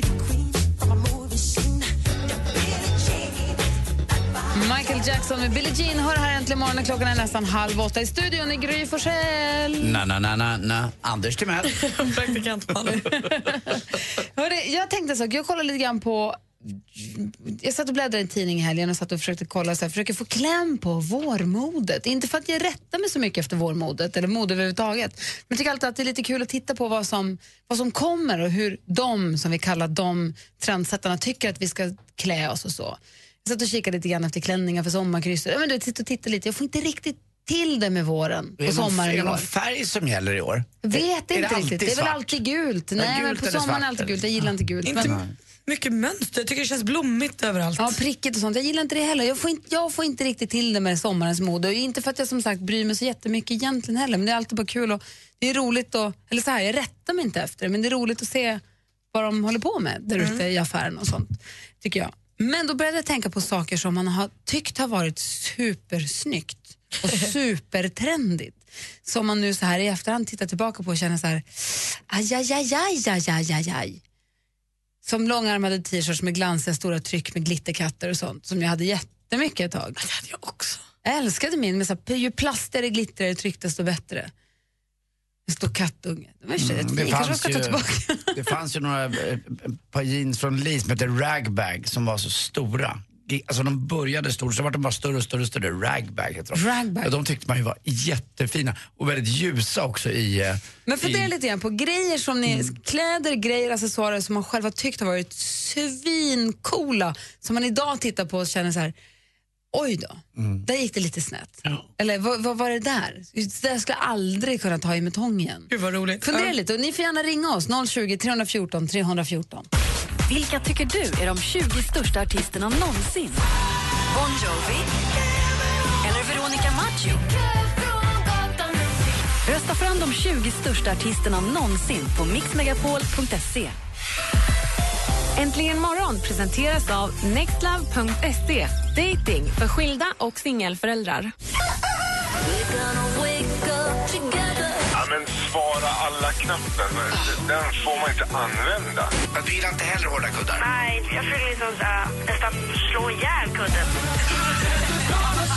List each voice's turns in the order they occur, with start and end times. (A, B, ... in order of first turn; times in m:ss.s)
0:04.5-0:10.0 A
0:09.8-0:11.9 B
0:11.7-0:13.3 C
0:13.1-0:39.5 A
0:38.6-0:42.4 B
0:40.8-0:45.2 A
0:43.0-0:44.2 B
0:44.8-0:48.0 C
0:45.0-0:45.3 B
0:47.8-0:58.6 A
0:59.1-1:14.0 A
1:15.0-1:20.0 A
1:20.0-1:20.8 C
1:21.0-1:24.3 A
1:25.5-1:28.4 A
1:26.6-1:27.8 B
1:28.3-1:41.3 B
1:36.5-1:37.1 A
1:40.8-1:48.9 A
1:49.7-1:55.7 A
1:55.7-1:56.5 C
1:56.2-1:59.7 A
2:00.3-2:03.4 D
2:04.1-2:04.9 D
2:06.0-2:07.2 D
2:07.5-2:08.9 E
2:09.4-2:13.8 D
2:15.4-2:21.3 E
2:22.5-2:24.7 D
2:25.0-2:29.1 F
2:29.3-2:30.6 B
2:30.6-2:33.9 G